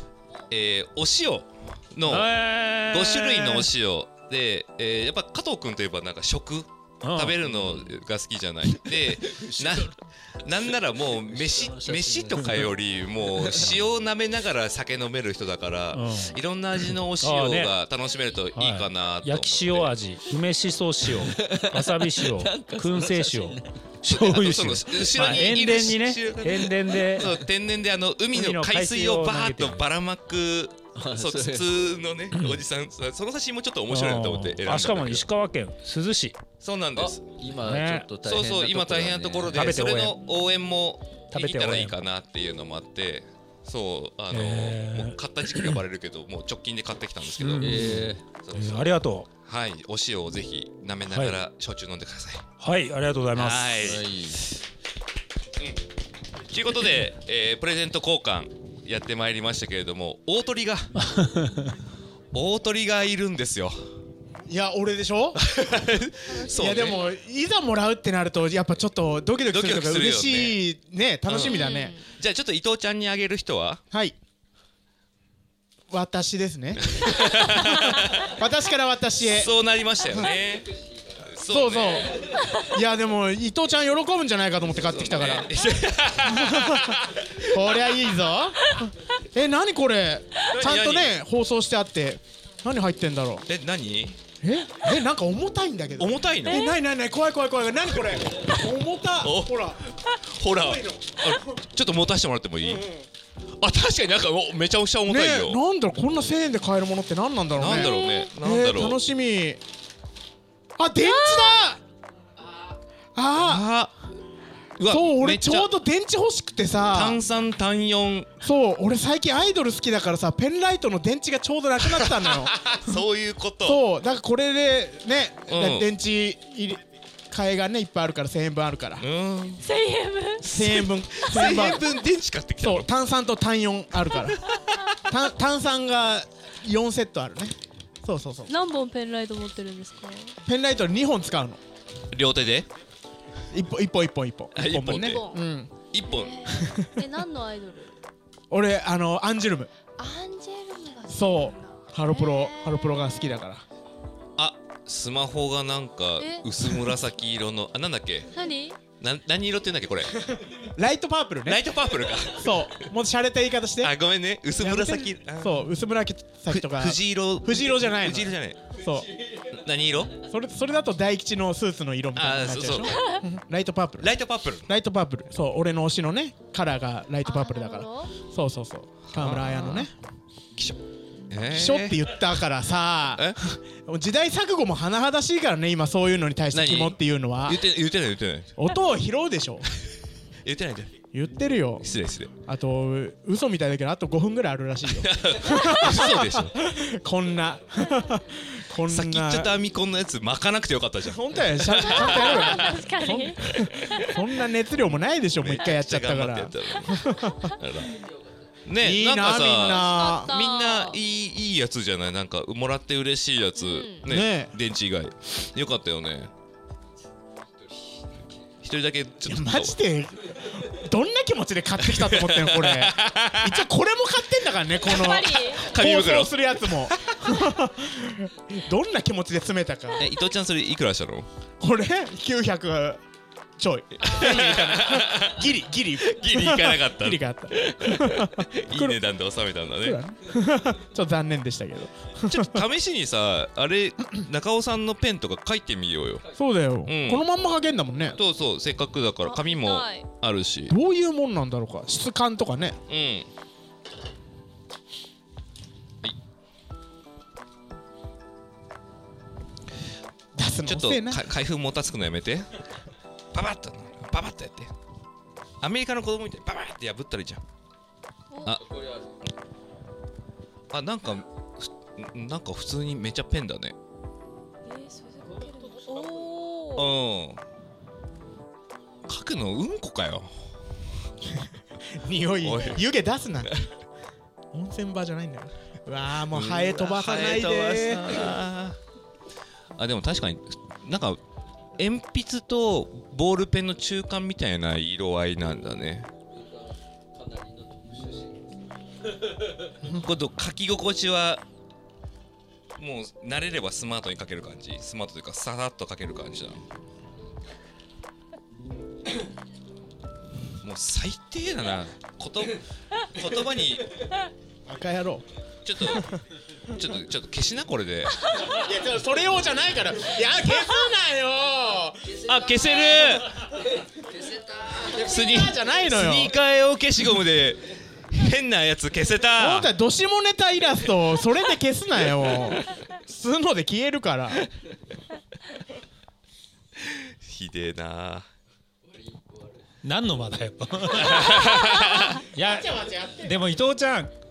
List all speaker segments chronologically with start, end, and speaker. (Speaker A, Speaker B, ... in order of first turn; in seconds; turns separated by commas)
Speaker A: 0.5-19.9, Speaker B: 2.0-3.7, Speaker B: 7.0-7.4, Speaker C: 7.5-8.0, Speaker C: 8.7-9.9, Speaker C: 10.5-13.8, Speaker B: 15.9-16.4, Speaker B: 17.2-17.7, Speaker B: 18.6-27.4, Speaker C: 21.1-23.8, Speaker A: 24.1-35.3, Speaker C: 24.9-25.6, Speaker C: 27.2-27.4, Speaker B: 28.3-29.9, Speaker C: 30.9-31.8, Speaker B: 32.3-32.6, Speaker B: 33.9-36.4, Speaker A: 36.6-37.2, Speaker C: 37.0-39.8, Speaker B: 37.5-38.1, Speaker A: 38.2-52.4, Speaker B: 39.5-40.2, Speaker B: 41.3-42.0, Speaker B: 44.3-45.8, Speaker B: 47.4-49.3, Speaker C: 47.6-48.2, Speaker B: 51.1-51.4, Speaker B: 52.6-53.9, Speaker A: 53.4-54.6, Speaker C: 53.8-54.4, Speaker A: 56.5-60.9, Speaker B: 61.0-61.8, Speaker A: 62.3-63.8, Speaker D: 64.5-65.4, Speaker A: 65.4-67.1, Speaker E: 66.3-67.1, Speaker D: 66.5-72.0, Speaker A: 69.5-70.6, Speaker A: 71.3-73.8, Speaker E: 71.4-72.0, Speaker D: 73.9-74.2, Speaker D: 75.9-79.5, Speaker A: 76.8-78.3, Speaker A: 79.2-82.1, Speaker D: 80.1-80.3, Speaker D: 81.5-85.5, Speaker A: 84.9-87.3, Speaker D: 86.2-93.5, Speaker A: 90.5-91.2, Speaker A: 93.5-94.2, Speaker D: 94.4-99.8, Speaker A: 96.0-96.7, Speaker E: 96.5-96.8, Speaker A: 99.2-99.7, Speaker A: 100.3-102.9, Speaker D: 100.4-101.6, Speaker D: 102.6-103.1, Speaker A: 103.6-105.6, Speaker D: 105.1-109.6, Speaker A: 107.5-109.0, Speaker E: 107.7-108.3, Speaker D: 110.8-111.8, Speaker E: 111.0-111.7, Speaker D: 113.2-113.7, Speaker A: 113.4-113.9, Speaker A: 114.8-115.7, Speaker D: 114.9-117.2, Speaker A: 116.9-118.3, Speaker D: 118.4-122.9, Speaker A: 121.9-123.8, Speaker D: 123.6-129.1, Speaker A: 125.5-125.9, Speaker A: 129.0-129.6, Speaker E: 129.6-130.4, Speaker A: 130.4-132.9, Speaker D: 130.5-131.9, Speaker D: 132.6-134.5, Speaker A: 134.4-134.7, Speaker D: 135.1-138.5, Speaker E: 138.5-140.4, Speaker D: 140.5-141.6, Speaker A: 142.1-142.7, Speaker D: 143.5-145.7, Speaker A: 144.5-145.2, Speaker E: 145.0-145.4, Speaker A: 145.9-146.4, Speaker E: 146.0-148.0, Speaker D: 146.5-146.9, Speaker D: 148.5-149.7, Speaker E: 150.0-153.0, Speaker D: 151.1-153.6, Speaker A: 154.4-158.3, Speaker E: 156.2-156.8, Speaker E: 158.3-158.8, Speaker A: 159.0-160.2, Speaker D: 160.8-161.7, Speaker A: 161.4-162.9, Speaker D: 162.4-163.9, Speaker A: 163.8-165.7, Speaker D: 164.6-169.1, Speaker A: 166.5-168.7, Speaker A: 169.5-170.2, Speaker D: 170.3-174.2, Speaker A: 172.2-173.2, Speaker E: 172.9-173.2, Speaker A: 174.0-174.7, Speaker D: 174.7-179.9, Speaker E: 177.2-178.1, Speaker A: 179.1-179.9, Speaker A: 181.3-182.2, Speaker D: 181.5-187.6, Speaker A: 186.5-188.5, Speaker D: 188.6-189.7, Speaker A: 190.4-190.9, Speaker D: 191.1-199.5, Speaker A: 191.8-192.3, Speaker A: 194.9-196.5, Speaker A: 198.9-202.8, Speaker D: 201.0-207.6, Speaker E: 201.8-204.2, Speaker A: 203.5-203.9, Speaker A: 205.4-208.0, Speaker A: 208.7-216.3, Speaker D: 208.8-210.4, Speaker E: 209.7-211.0, Speaker E: 213.6-214.1, Speaker D: 214.1-214.5, Speaker A: 218.6-219.8, Speaker D: 219.3-230.1, Speaker A: 221.8-223.7, Speaker E: 224.8-225.7, Speaker A: 225.6-226.3, Speaker A: 230.0-231.3, Speaker D: 231.6-233.0, Speaker D: 233.6-239.0, Speaker A: 234.1-235.5, Speaker A: 236.0-240.0, Speaker D: 239.8-242.6, Speaker A: 242.3-246.2, Speaker D: 246.3-248.2, Speaker A: 246.8-247.2, Speaker A: 248.1-250.7, Speaker E: 249.2-250.1, Speaker D: 250.7-252.8, Speaker A: 252.9-253.3, Speaker D: 260.4-261.3, Speaker A: 260.7-262.5, Speaker A: 263.3-264.7, Speaker A: 265.6-267.4, Speaker E: 268.3-268.6, Speaker C: 268.5-269.2, Speaker A: 270.7-273.8, Speaker E: 274.7-276.9, Speaker A: 276.8-277.4, Speaker A: 279.1-280.3, Speaker D: 281.9-283.5, Speaker A: 282.4-282.9, Speaker D: 284.5-288.3, Speaker A: 286.3-288.8, Speaker A: 289.8-291.2, Speaker A: 291.8-296.1, Speaker C: 296.4-298.4, Speaker A: 299.9-301.4, Speaker A: 302.8-306.6, Speaker A: 310.6-313.9, Speaker D: 314.7-315.3, Speaker A: 315.6-316.0, Speaker D: 315.8-316.1, Speaker A: 316.8-318.2, Speaker D: 318.5-322.2, Speaker A: 322.2-323.3, Speaker D: 324.7-326.4, Speaker A: 325.0-329.7, Speaker D: 329.4-334.5, Speaker A: 336.8-338.3, Speaker C: 338.9-339.6, Speaker B: 339.8-344.1, Speaker A: 340.9-342.2, Speaker D: 342.3-343.4